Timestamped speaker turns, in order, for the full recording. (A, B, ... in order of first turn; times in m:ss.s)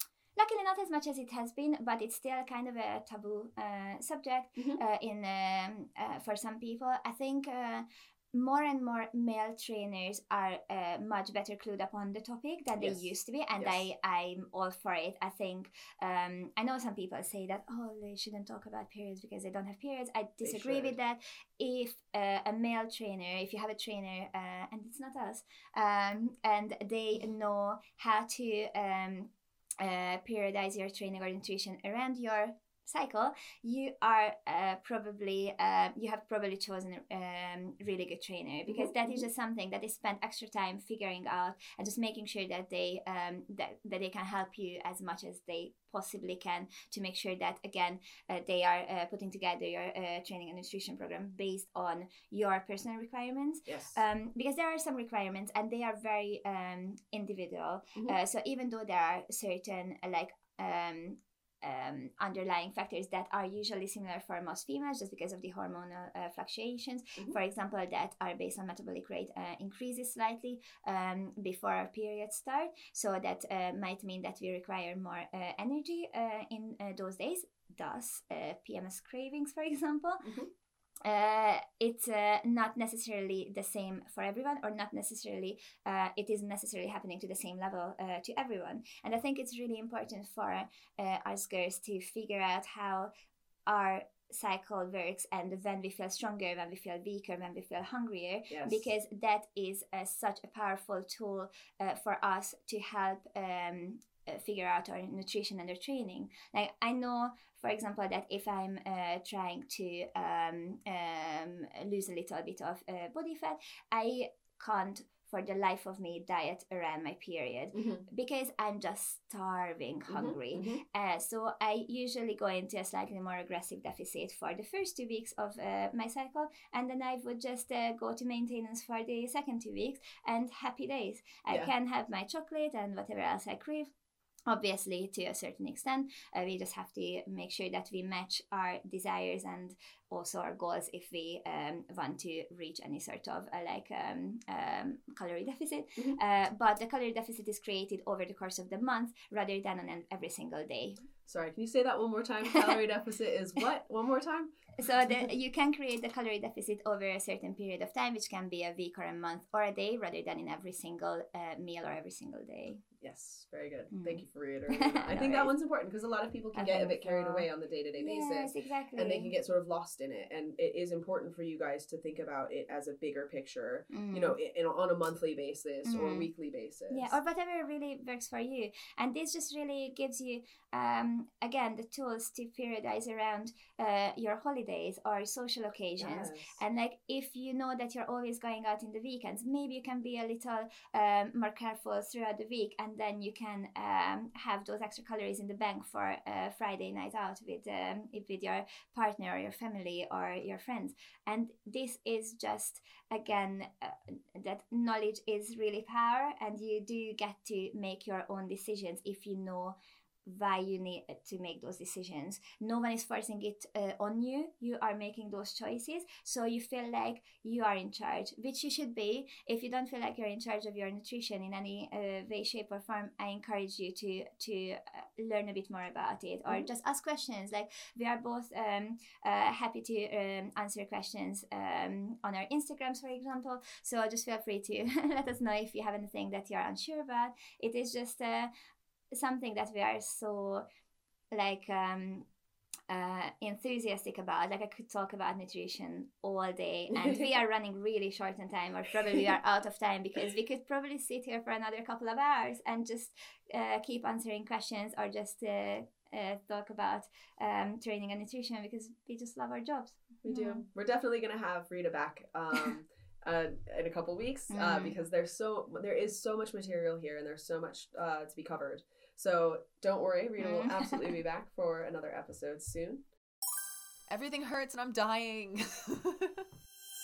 0:00.4-1:20.3 A
0:12.8-0:13.8 B
0:20.4-0:20.9 B
0:38.7-0:39.2 B
0:53.7-0:54.0 B
1:20.2-1:20.5 B
1:21.0-1:33.1 A
1:33.6-2:13.9 A
1:38.5-1:38.9 B
1:57.7-1:58.0 B
2:00.1-2:00.8 B
2:14.5-2:31.0 A
2:31.2-2:34.6 B
2:34.8-2:42.8 A
2:43.0-2:57.1 B
2:43.9-2:44.2 A
2:44.7-2:45.5 A
2:46.5-2:49.3 A
2:53.9-2:54.4 A
2:55.8-2:56.3 A
2:56.9-3:58.5 A
3:06.0-3:06.6 B
3:59.1-4:00.6 A
4:01.3-4:02.2 A
4:02.9-4:20.6 A
4:06.9-4:07.3 B
4:20.2-4:33.0 B
4:24.5-4:25.0 A
4:30.4-4:31.2 A
4:34.1-4:36.4 C